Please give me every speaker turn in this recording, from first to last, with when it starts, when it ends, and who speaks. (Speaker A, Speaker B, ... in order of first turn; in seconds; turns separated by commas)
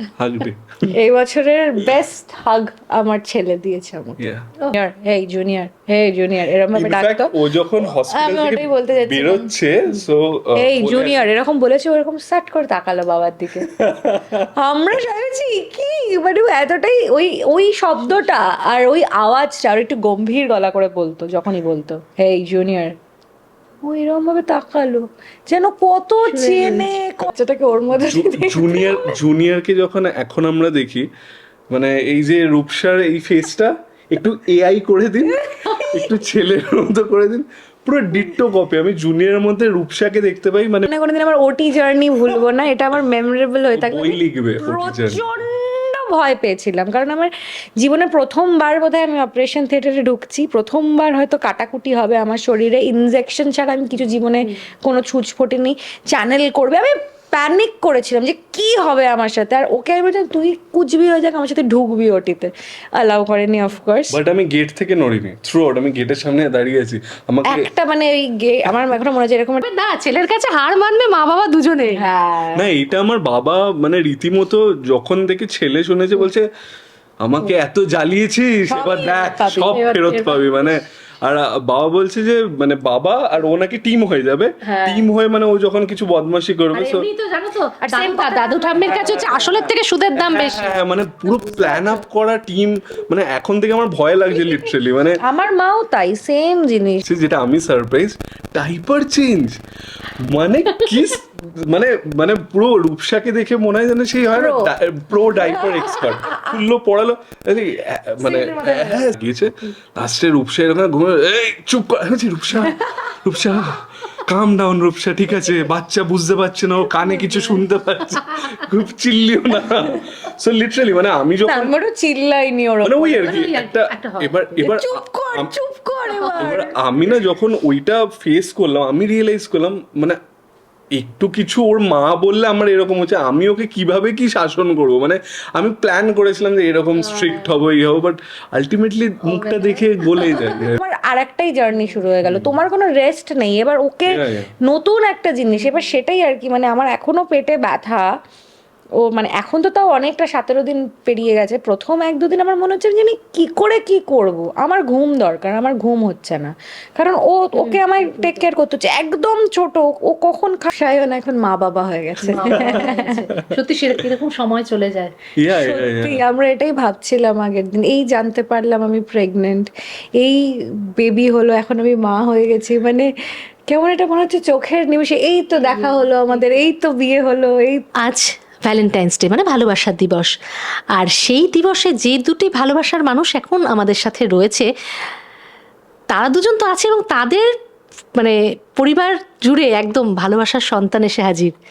Speaker A: 0.2-0.9, Speaker B: 0.9-4.2, Speaker A: 4.2-4.5, Speaker B: 4.7-9.5, Speaker A: 6.7-11.2, Speaker B: 10.6-13.7, Speaker A: 13.6-14.5, Speaker B: 14.6-22.9, Speaker B: 23.8-29.1, Speaker C: 26.3-26.9, Speaker A: 27.9-31.1, Speaker A: 31.7-40.9, Speaker B: 35.3-36.1, Speaker B: 40.9-64.2, Speaker A: 43.8-45.2, Speaker A: 64.1-67.7, Speaker B: 67.5-69.6, Speaker C: 69.6-72.0, Speaker B: 71.9-72.7, Speaker A: 72.5-76.5, Speaker A: 77.2-87.1, Speaker B: 78.7-79.8, Speaker C: 79.7-80.8, Speaker C: 84.6-85.1, Speaker C: 86.7-90.7, Speaker B: 87.8-89.7, Speaker A: 88.9-89.2, Speaker A: 90.2-95.2, Speaker C: 91.3-92.0, Speaker C: 94.3-94.7, Speaker B: 95.2-97.0, Speaker A: 97.0-99.6, Speaker A: 100.2-121.7, Speaker C: 100.8-101.1, Speaker B: 104.4-104.7, Speaker B: 105.3-106.6, Speaker C: 108.2-109.0, Speaker B: 112.6-113.2, Speaker C: 117.1-117.6, Speaker B: 121.5-123.4, Speaker A: 122.8-125.5, Speaker C: 123.2-124.7, Speaker B: 124.6-126.8, Speaker C: 126.1-126.5, Speaker A: 126.4-130.2, Speaker A: 130.9-140.8, Speaker C: 137.0-137.6, Speaker C: 139.2-140.6, Speaker B: 140.4-148.1, Speaker A: 142.2-142.6, Speaker A: 144.1-144.5, Speaker C: 145.6-145.9, Speaker B: 149.0-163.3, Speaker C: 157.6-158.4, Speaker C: 162.3-165.2, Speaker A: 162.4-163.5, Speaker A: 165.4-166.2, Speaker B: 165.5-173.1, Speaker B: 173.7-177.8, Speaker C: 175.5-176.7, Speaker C: 178.0-180.3, Speaker C: 180.9-184.7, Speaker C: 186.1-187.5, Speaker C: 188.2-191.5